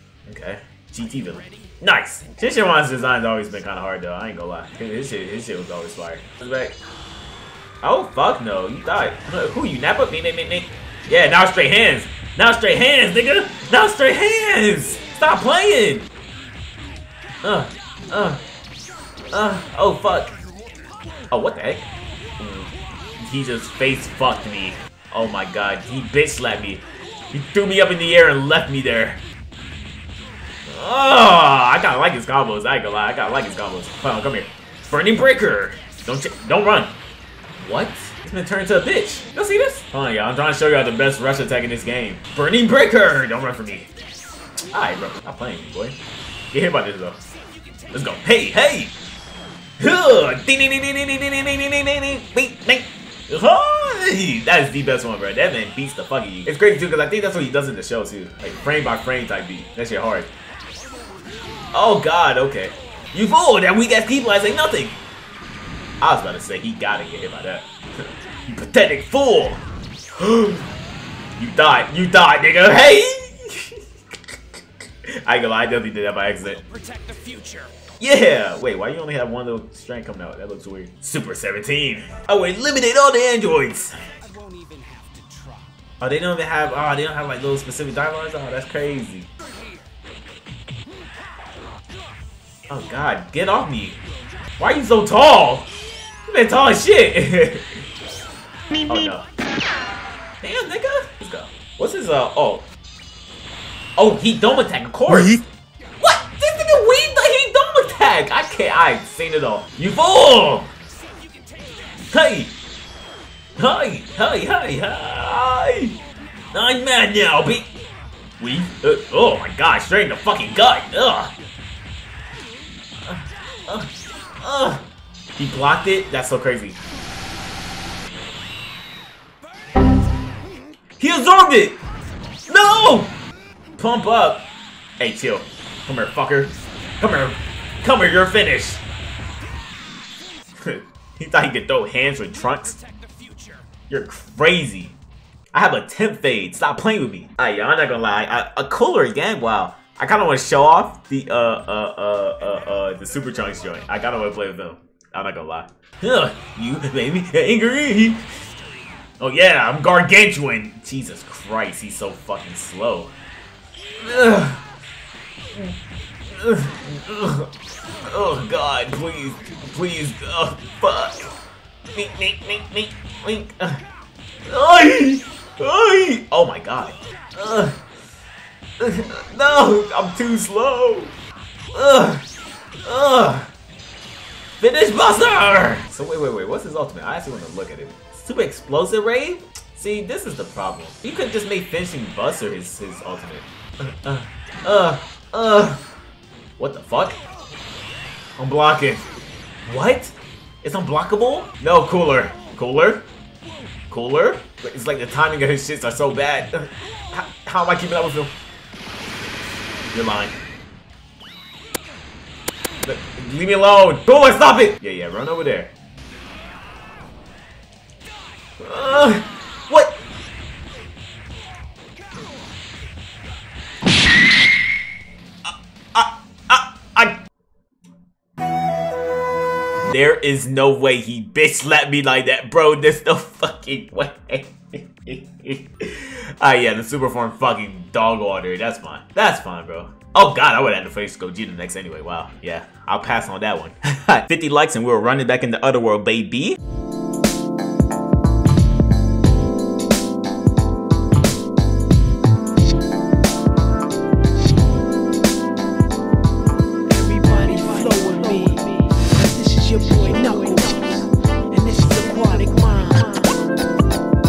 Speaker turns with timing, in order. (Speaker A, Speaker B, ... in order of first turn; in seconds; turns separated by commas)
Speaker A: 0.2-6.8, Speaker A: 7.8-16.1, Speaker A: 17.4-18.4, Speaker A: 19.3-20.3, Speaker A: 21.3-21.9, Speaker A: 22.4-22.7, Speaker A: 23.2-29.2, Speaker A: 30.6-36.9, Speaker A: 37.6-43.9, Speaker A: 44.7-46.0, Speaker A: 46.5-47.2, Speaker A: 47.9-48.9, Speaker A: 49.8-60.3, Speaker A: 61.7-65.0, Speaker A: 66.0-69.6, Speaker A: 70.2-70.7, Speaker A: 71.4-76.6, Speaker B: 76.6-77.7, Speaker A: 78.0-84.0, Speaker B: 84.2-85.7, Speaker A: 86.0-89.3, Speaker A: 92.7-94.0, Speaker A: 94.6-95.7, Speaker A: 96.3-97.8, Speaker A: 98.8-99.3, Speaker A: 100.4-102.7, Speaker A: 104.0-105.4, Speaker A: 106.0-110.7, Speaker B: 111.1-111.8, Speaker A: 112.1-112.5, Speaker A: 113.6-116.0, Speaker A: 116.5-117.7, Speaker A: 118.4-121.3, Speaker A: 123.1-124.8, Speaker A: 125.3-126.8, Speaker A: 131.0-131.8, Speaker A: 132.5-133.1, Speaker A: 133.8-134.4, Speaker A: 135.0-138.8, Speaker A: 140.6-142.8, Speaker B: 142.7-143.6, Speaker A: 143.9-144.9, Speaker A: 145.5-158.2, Speaker A: 159.2-163.1, Speaker A: 164.0-164.6, Speaker A: 165.5-167.5, Speaker A: 168.0-171.4, Speaker A: 171.9-173.8, Speaker A: 174.5-177.8, Speaker A: 178.8-181.1, Speaker A: 181.7-182.2, Speaker A: 182.8-183.5, Speaker A: 184.6-195.8, Speaker A: 196.6-197.2, Speaker A: 198.4-199.1, Speaker A: 199.7-203.0, Speaker A: 203.9-208.3, Speaker A: 209.9-210.3, Speaker A: 212.8-215.7, Speaker A: 218.6-219.9, Speaker A: 225.4-227.2, Speaker A: 229.8-246.6, Speaker B: 256.9-263.3